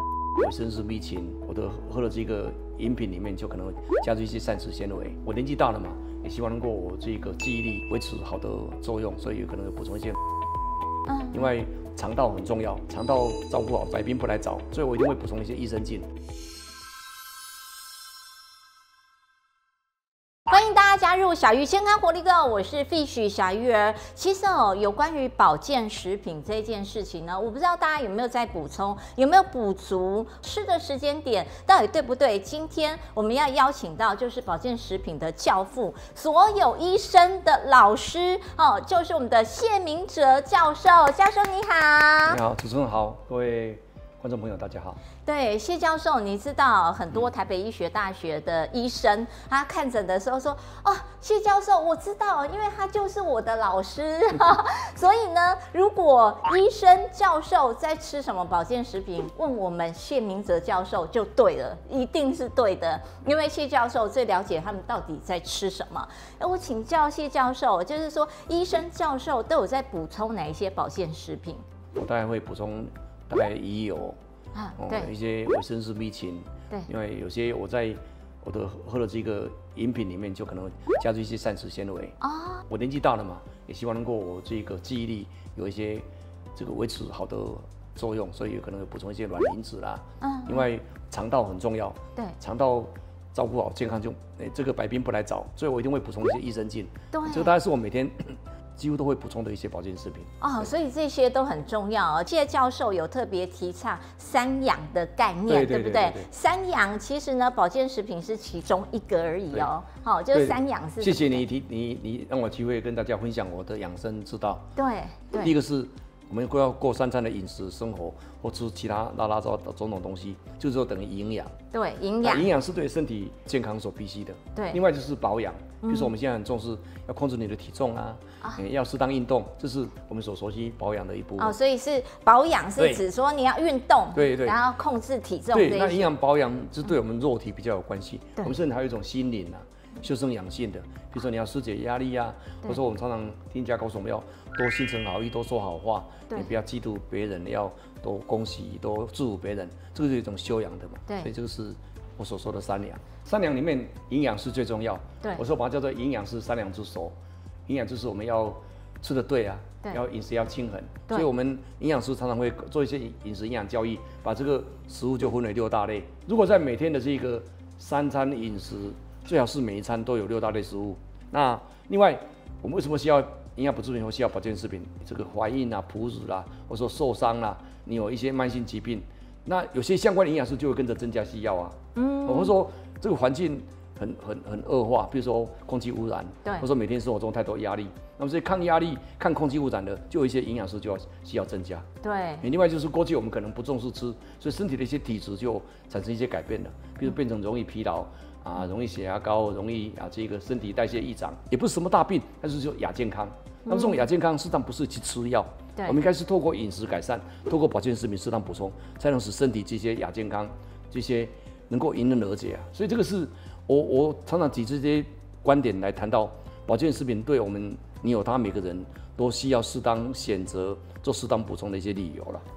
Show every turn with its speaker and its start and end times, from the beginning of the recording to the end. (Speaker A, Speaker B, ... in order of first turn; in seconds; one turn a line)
Speaker A: 0.4-10.2
Speaker B: 11.1-11.5
Speaker A: 11.3-16.1
Speaker B: 20.5-42.4
Speaker A: 42.3-45.0
Speaker B: 45.2-71.6
Speaker A: 72.0-74.2
Speaker B: 74.5-75.1
Speaker A: 74.8-82.2
Speaker B: 82.2-82.6
Speaker A: 82.7-100.7
Speaker B: 90.2-90.7
Speaker B: 97.1-97.5
Speaker B: 100.4-111.4
Speaker A: 105.5-106.3
Speaker A: 110.3-114.7
Speaker B: 114.8-115.5
Speaker A: 115.3-121.5
Speaker B: 121.7-122.5
Speaker A: 122.2-131.6
Speaker B: 125.8-126.1
Speaker B: 131.4-136.1
Speaker A: 132.8-133.0
Speaker A: 134.1-134.6
Speaker A: 135.5-157.2
Speaker A: 157.7-191.8
Speaker B: 181.9-182.5
Speaker B: 192.0-192.4
Speaker A: 192.4-222.4
Speaker B: 203.7-204.1